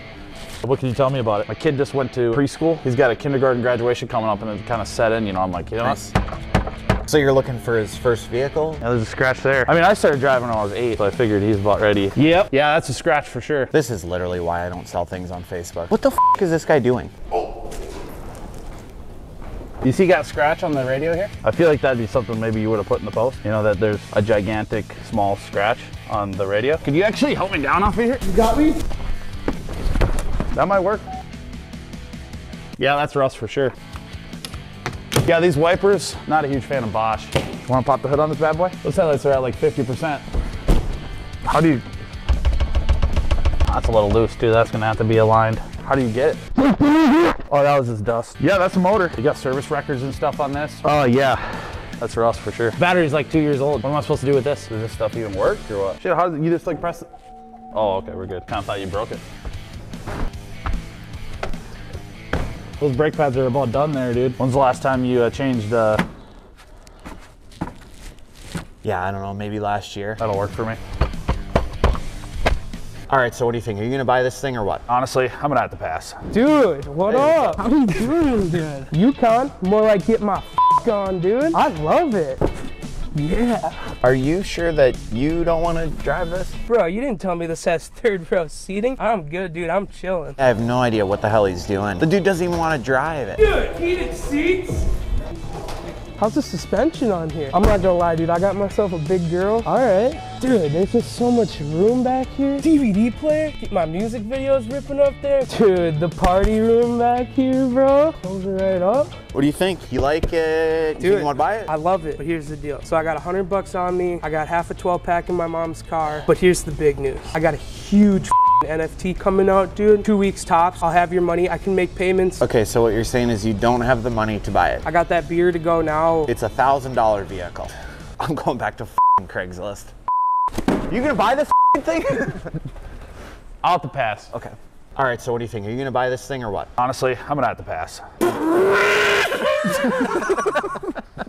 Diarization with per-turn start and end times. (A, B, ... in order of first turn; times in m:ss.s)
0:00.6-0:06.0 A
0:05.8-0:06.1 B
0:07.0-0:08.8 B
0:08.8-0:13.7 A
0:13.7-0:17.1 B
0:19.8-0:28.7 A
0:30.5-0:31.0 A
0:32.8-0:33.8 A
0:35.2-0:40.2 A
0:41.4-0:41.8 A
0:43.6-0:46.4 A
0:47.4-0:57.1 A
0:57.7-0:59.2 A
1:02.8-1:06.0 A
1:08.8-1:10.2 B
1:10.2-1:10.8 A
1:13.1-1:14.8 B
1:14.9-1:16.2 A
1:16.3-1:22.4 C
1:17.1-1:17.6 B
1:23.2-1:23.8 C
1:24.0-1:26.6 B
1:26.7-1:30.4 C
1:30.4-1:33.4 B
1:33.4-1:34.9 C
1:36.2-1:49.1 C
1:49.3-1:51.7 B
1:51.0-2:02.4 C
2:02.4-2:04.9 B
2:04.8-2:06.3 C
2:06.3-2:09.9 B
2:10.9-2:12.5 B
2:13.6-2:14.3 A
2:14.3-2:16.7 B
2:16.8-2:20.7 A